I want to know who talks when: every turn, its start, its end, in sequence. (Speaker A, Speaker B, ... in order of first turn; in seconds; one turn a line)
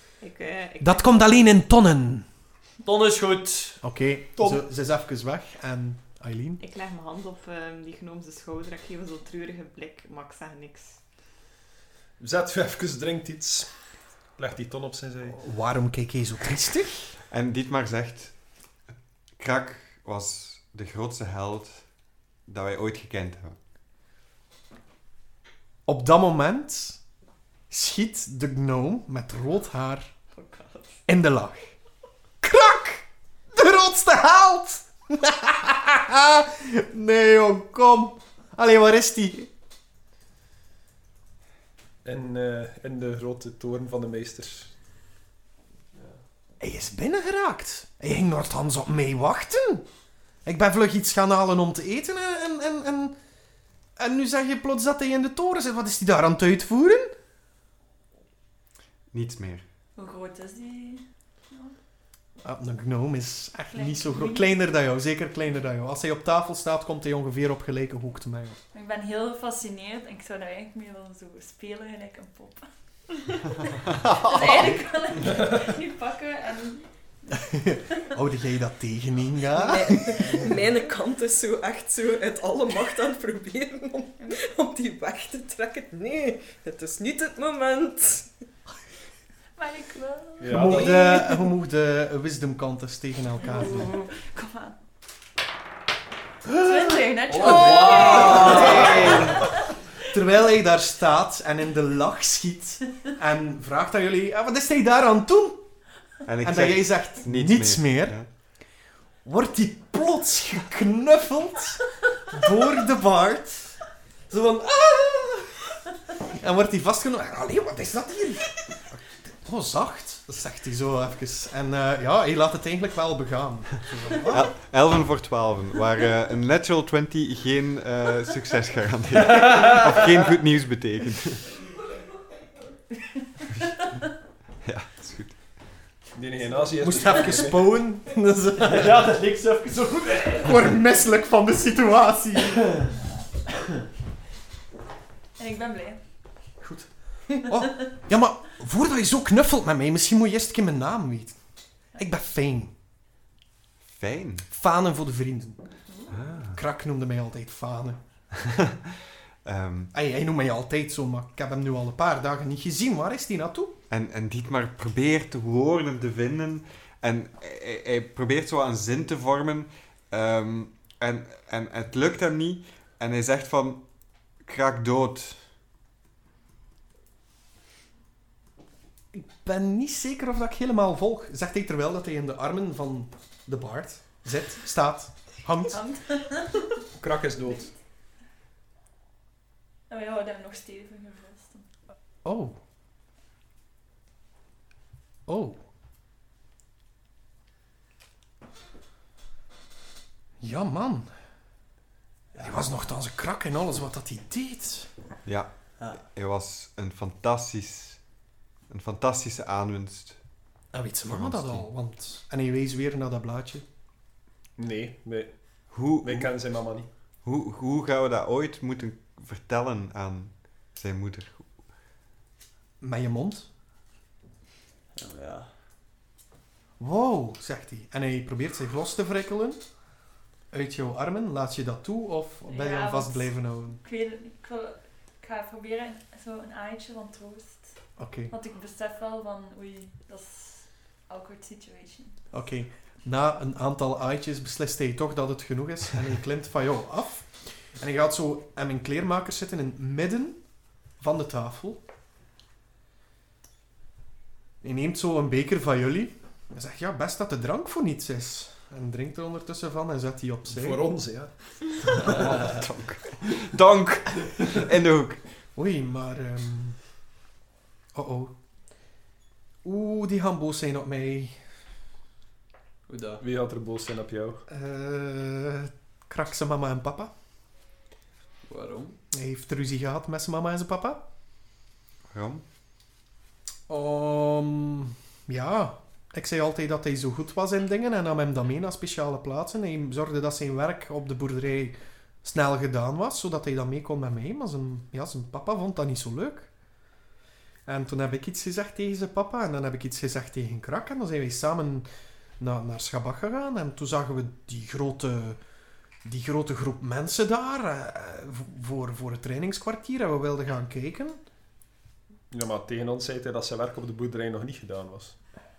Speaker A: 0.2-1.5
Speaker B: 0.8-2.3
Speaker C: 2.9-3.8
Speaker B: 3.8-6.6
Speaker D: 4.4-4.6
Speaker A: 6.6-11.0
Speaker D: 12.2-13.7
Speaker D: 14.4-15.4
Speaker B: 15.4-17.2
Speaker E: 17.3-18.3
Speaker E: 19.4-21.9
Speaker E: 22.5-23.6
Speaker B: 25.9-27.0
Speaker B: 27.7-30.1
Speaker A: 30.3-31.0
Speaker B: 31.1-31.7
Speaker B: 32.4-39.5
Speaker D: 42.0-44.7
Speaker C: 46.0-46.2
Speaker B: 46.6-49.9
Speaker B: 50.5-53.2
Speaker B: 54.0-57.1
Speaker E: 59.1-59.6
Speaker F: 60.0-61.7
Speaker B: 62.4-68.6
Speaker F: 63.7-64.6
Speaker F: 68.7-77.3
Speaker E: 74.3-74.6
Speaker B: 74.4-74.9
Speaker B: 77.3-80.4
Speaker G: 79.5-88.3
Speaker F: 89.6-90.7
Speaker D: 90.4-91.1
Speaker B: 90.5-93.9
Speaker G: 90.7-91.1
Speaker F: 93.4-94.8
Speaker F: 96.5-99.8
Speaker C: 97.3-99.4
Speaker B: 97.4-99.5
Speaker B: 100.1-105.6
Speaker E: 106.3-108.3
Speaker B: 106.4-108.2
Speaker B: 109.2-124.5
Speaker E: 124.3-131.6
Speaker C: 129.4-129.9
Speaker E: 134.6-135.4
Speaker D: 136.2-137.7
Speaker B: 136.8-139.1
Speaker C: 138.6-140.7
Speaker B: 140.4-142.8
Speaker F: 145.4-146.0
Speaker B: 146.6-151.4
Speaker B: 152.0-152.7
Speaker E: 153.8-154.5
Speaker B: 154.5-155.7
Speaker E: 156.1-156.6
Speaker B: 156.4-158.0
Speaker E: 159.4-159.9
Speaker B: 159.9-163.8
Speaker E: 163.9-173.8
Speaker E: 174.4-175.4
Speaker B: 179.1-185.8
Speaker F: 185.7-186.8
Speaker D: 187.0-187.7
Speaker F: 189.9-191.7
Speaker B: 192.2-192.6
Speaker B: 195.3-195.6
Speaker B: 200.4-201.1
Speaker C: 202.3-202.7
Speaker B: 202.4-204.9
Speaker E: 205.2-208.0
Speaker E: 208.7-210.2
Speaker B: 210.7-213.7
Speaker E: 211.0-211.7
Speaker D: 214.6-216.9
Speaker E: 215.7-216.3
Speaker E: 217.2-221.5
Speaker B: 222.8-223.5
Speaker C: 225.0-225.5
Speaker B: 226.8-229.7
Speaker B: 230.5-233.8
Speaker F: 232.5-237.8
Speaker B: 238.0-238.3
Speaker F: 238.3-242.2
Speaker B: 242.3-250.4
Speaker B: 251.0-251.8
Speaker B: 254.6-260.9
Speaker D: 260.5-261.3
Speaker E: 262.1-265.2
Speaker B: 265.6-266.8
Speaker B: 267.9-268.3
Speaker B: 269.6-271.4
Speaker C: 272.9-273.2
Speaker D: 273.2-274.4
Speaker B: 274.5-277.1
Speaker C: 278.5-279.0
Speaker B: 279.1-281.0
Speaker E: 282.1-282.4
Speaker B: 283.7-296.5
Speaker B: 297.7-301.9
Speaker B: 302.4-305.4
Speaker B: 306.0-311.2
Speaker D: 312.3-315.2